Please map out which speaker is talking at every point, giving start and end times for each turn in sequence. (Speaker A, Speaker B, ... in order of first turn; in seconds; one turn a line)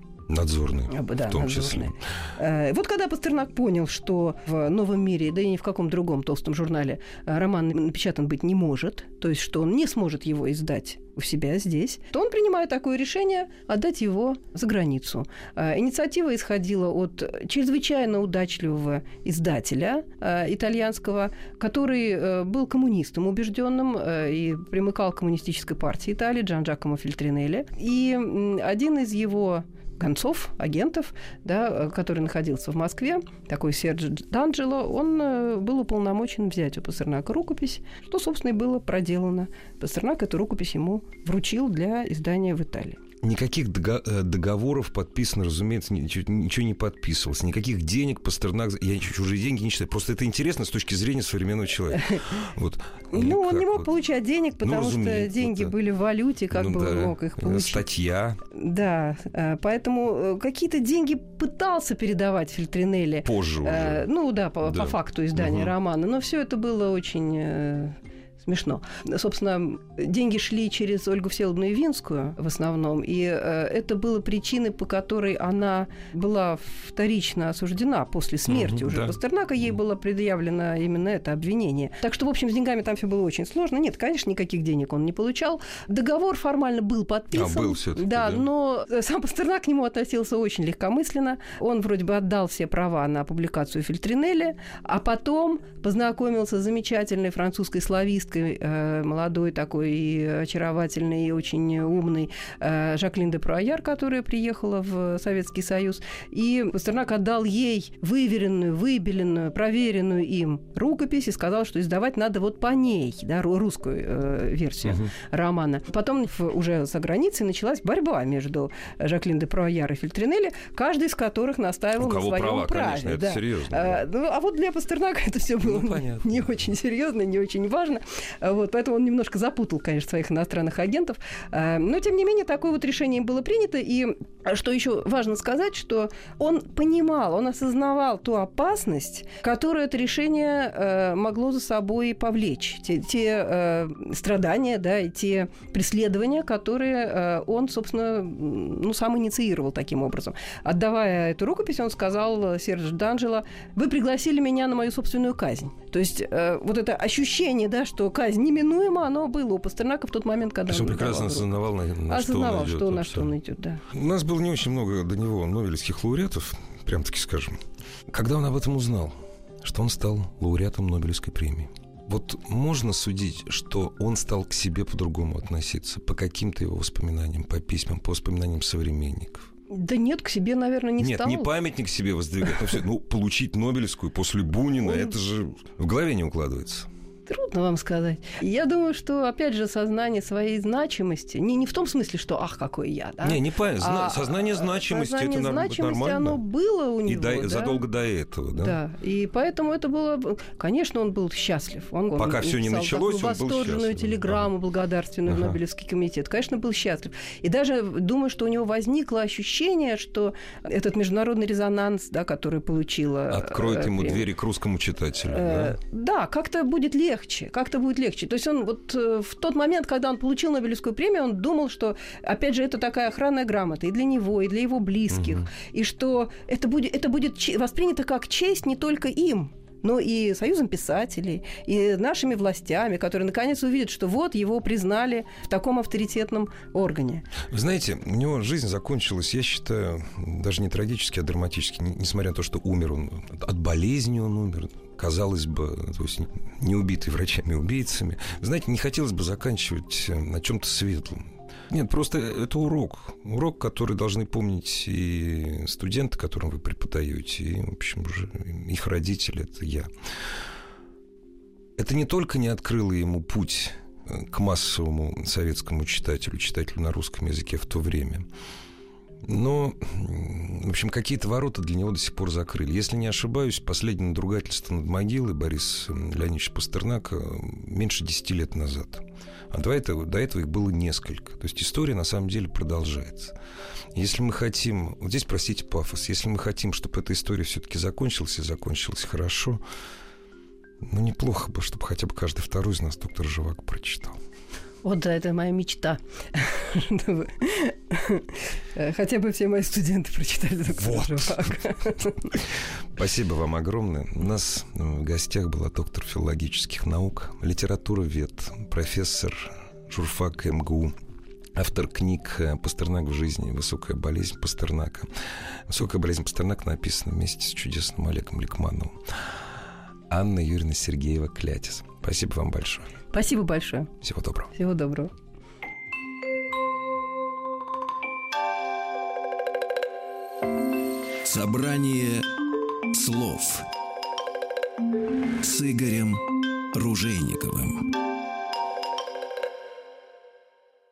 Speaker A: 0.3-1.9
Speaker B: 0.9-43.0
Speaker A: 43.2-53.9
Speaker B: 51.9-52.3
Speaker B: 53.1-57.9
Speaker A: 54.6-55.7
Speaker A: 56.5-58.4
Speaker B: 58.5-163.8
Speaker A: 63.2-64.1
Speaker A: 64.6-65.7
Speaker A: 78.5-79.2
Speaker A: 87.3-88.5
Speaker A: 114.8-115.1
Speaker A: 122.0-124.1
Speaker A: 125.6-126.5
Speaker A: 160.7-163.3
Speaker A: 163.9-179.5
Speaker B: 179.7-181.5
Speaker A: 181.0-186.9
Speaker B: 184.8-185.1
Speaker B: 187.3-197.8
Speaker A: 193.2-196.4
Speaker A: 197.1-198.8
Speaker B: 198.6-214.2
Speaker A: 202.2-204.5
Speaker A: 205.3-205.6
Speaker A: 213.3-215.8
Speaker B: 215.3-237.3
Speaker A: 225.1-225.5
Speaker A: 237.5-259.9
Speaker A: 261.8-268.3
Speaker A: 269.2-283.3
Speaker A: 283.9-289.6
Speaker A: 290.8-294.2
Speaker B: 294.8-302.4
Speaker A: 300.8-301.5
Speaker A: 302.9-310.9
Speaker A: 311.6-315.1
Speaker A: 315.7-319.4
Speaker A: 320.1-322.9
Speaker B: 323.1-323.9
Speaker A: 324.0-324.5
Speaker B: 324.6-325.1
Speaker C: 331.2-332.3
Speaker C: 332.9-333.7
Speaker C: 335.4-336.2
Speaker C: 336.7-337.9